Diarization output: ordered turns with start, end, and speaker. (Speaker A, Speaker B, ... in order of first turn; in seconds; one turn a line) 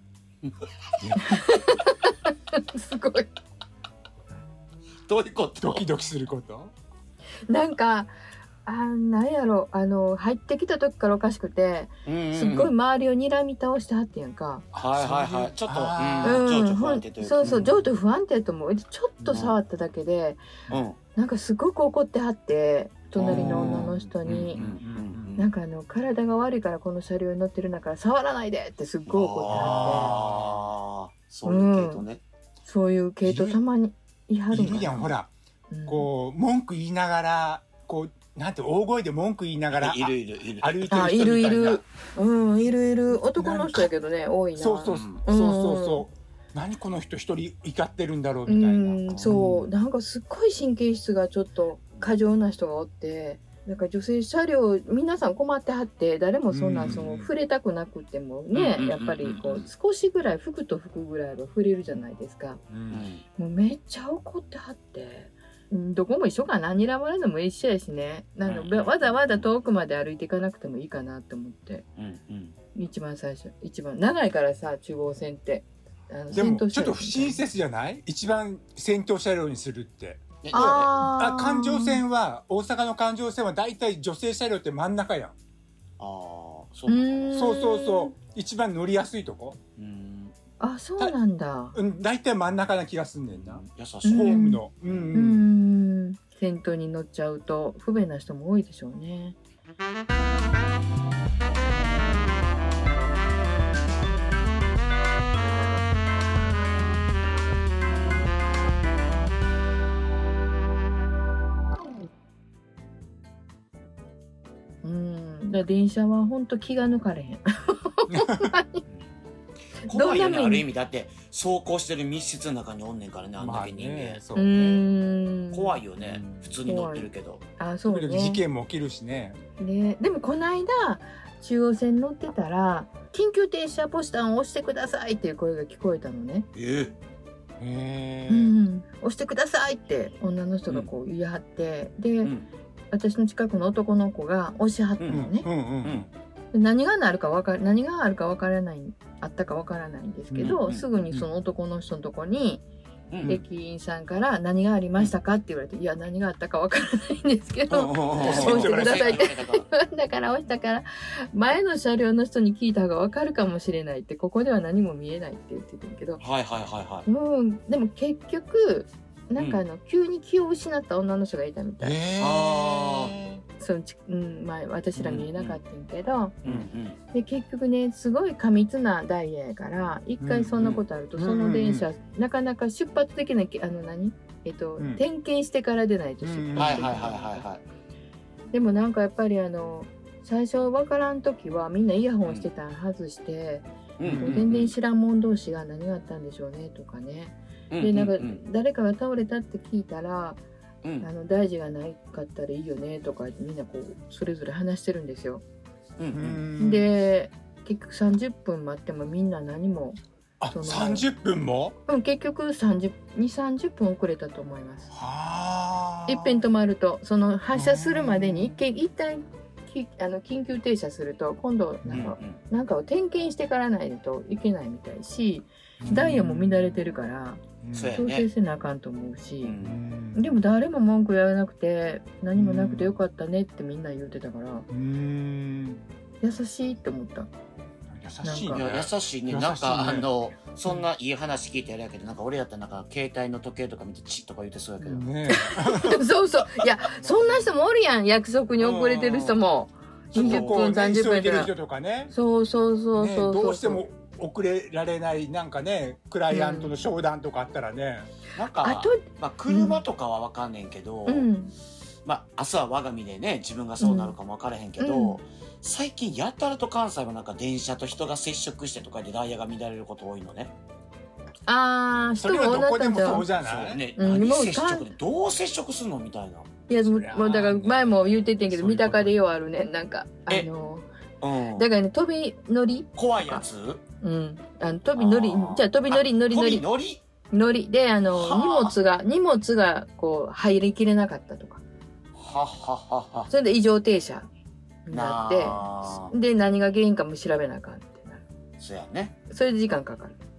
Speaker A: 1.0-1.4
Speaker B: 1.2-3.3
Speaker C: 5.1-5.8
Speaker A: 5.6-6.7
Speaker B: 7.5-8.1
Speaker B: 8.7-14.7
Speaker C: 12.0-12.7
Speaker C: 14.7-17.7
Speaker A: 14.9-16.4
Speaker B: 16.2-20.4
Speaker C: 20.7-21.0
Speaker B: 21.1-24.6
Speaker C: 23.1-25.5
Speaker A: 23.2-25.4
Speaker B: 25.4-30.1
Speaker C: 29.1-32.2
Speaker A: 29.5-30.6
Speaker B: 31.4-32.0
Speaker B: 32.6-35.1
Speaker A: 33.2-33.6
Speaker A: 34.5-35.3
Speaker B: 35.7-36.1
Speaker A: 35.9-41.8
Speaker C: 39.7-40.9
Speaker B: 40.9-46.0
Speaker A: 43.3-43.9
Speaker A: 44.5-49.7
Speaker C: 44.9-45.2
Speaker B: 48.5-62.6
Speaker C: 49.1-49.4
Speaker A: 56.5-57.3
Speaker C: 58.5-59.7
Speaker A: 62.7-63.0
Speaker C: 62.9-63.2
Speaker B: 63.4-71.8
Speaker C: 68.4-69.5
Speaker C: 72.0-72.5
Speaker B: 72.7-77.4
Speaker A: 76.3-85.3
Speaker C: 80.4-80.9
Speaker B: 80.5-82.0
Speaker C: 86.0-87.4
Speaker B: 86.9-88.1
Speaker A: 87.3-89.6
Speaker C: 89.8-90.3
Speaker B: 90.6-91.8
Speaker A: 91.7-95.5
Speaker C: 93.3-95.2
Speaker B: 94.0-94.6
Speaker B: 95.1-99.3
Speaker B: 114.8-118.8
Speaker A: 118.1-118.5
Speaker C: 119.8-124.2
Speaker B: 119.9-120.7
Speaker A: 123.4-124.8
Speaker B: 124.3-125.8
Speaker C: 125.5-127.4
Speaker A: 126.0-126.5
Speaker B: 126.7-128.4
Speaker A: 127.9-129.4
Speaker B: 129.6-136.5
Speaker C: 136.5-136.9
Speaker A: 137.6-138.5
Speaker B: 138.3-142.3
Speaker B: 142.9-145.5
Speaker C: 145.0-145.2
Speaker A: 145.1-146.1
Speaker B: 146.5-152.6
Speaker A: 150.3-150.6
Speaker C: 150.4-150.8
Speaker C: 153.1-153.4
Speaker B: 153.2-166.2
Speaker C: 157.7-159.7
Speaker A: 158.2-159.3
Speaker C: 166.2-167.1
Speaker B: 167.1-172.0
Speaker C: 169.4-169.6
Speaker A: 171.8-173.4
Speaker C: 172.2-173.2
Speaker B: 173.6-176.4
Speaker C: 174.9-175.6
Speaker C: 176.4-177.0
Speaker B: 177.1-187.4
Speaker A: 180.2-181.9
Speaker A: 186.2-187.1
Speaker C: 186.6-187.6
Speaker B: 188.5-200.4
Speaker C: 194.0-194.7
Speaker A: 194.0-194.4
Speaker C: 197.7-198.4
Speaker C: 200.8-201.1
Speaker B: 201.0-205.4
Speaker C: 206.0-206.4
Speaker A: 206.1-206.9
Speaker B: 206.6-210.0
Speaker A: 210.4-211.8
Speaker B: 210.5-211.1
Speaker B: 211.9-214.9
Speaker A: 214.9-216.4
Speaker B: 216.1-229.5
Speaker A: 217.5-218.6
Speaker C: 221.9-222.4
Speaker A: 225.8-226.8
Speaker A: 227.6-228.0
Speaker C: 227.7-228.3
Speaker C: 229.4-229.8
Speaker A: 229.6-230.4
Speaker B: 230.1-234.7
Speaker A: 232.3-233.0
Speaker A: 234.7-235.8
Speaker B: 236.2-237.3
Speaker A: 237.9-240.1
Speaker B: 238.2-238.6
Speaker C: 238.5-245.1
Speaker A: 244.8-246.1
Speaker B: 245.3-251.5
Speaker A: 247.0-247.5
Speaker C: 248.6-249.4
Speaker A: 250.1-252.1
Speaker C: 250.1-250.6
Speaker B: 252.1-253.8
Speaker A: 252.9-258.1
Speaker B: 256.3-256.7
Speaker C: 258.3-261.3
Speaker B: 258.6-259.8
Speaker B: 261.1-261.5
Speaker C: 262.0-270.5
Speaker B: 263.8-264.1
Speaker B: 264.8-265.2
Speaker B: 271.5-273.3
Speaker A: 272.2-273.8
Speaker C: 273.4-276.5
Speaker B: 273.9-274.9
Speaker B: 276.7-280.9
Speaker A: 276.8-279.2
Speaker C: 281.2-281.7
Speaker B: 281.6-283.4
Speaker C: 283.0-283.8
Speaker B: 284.0-286.6
Speaker C: 284.9-287.0
Speaker B: 287.3-291.6
Speaker C: 288.1-288.7
Speaker C: 292.1-293.3
Speaker B: 293.3-294.3
Speaker B: 294.9-298.2
Speaker C: 294.9-296.1
Speaker C: 298.6-299.1
Speaker B: 299.3-300.1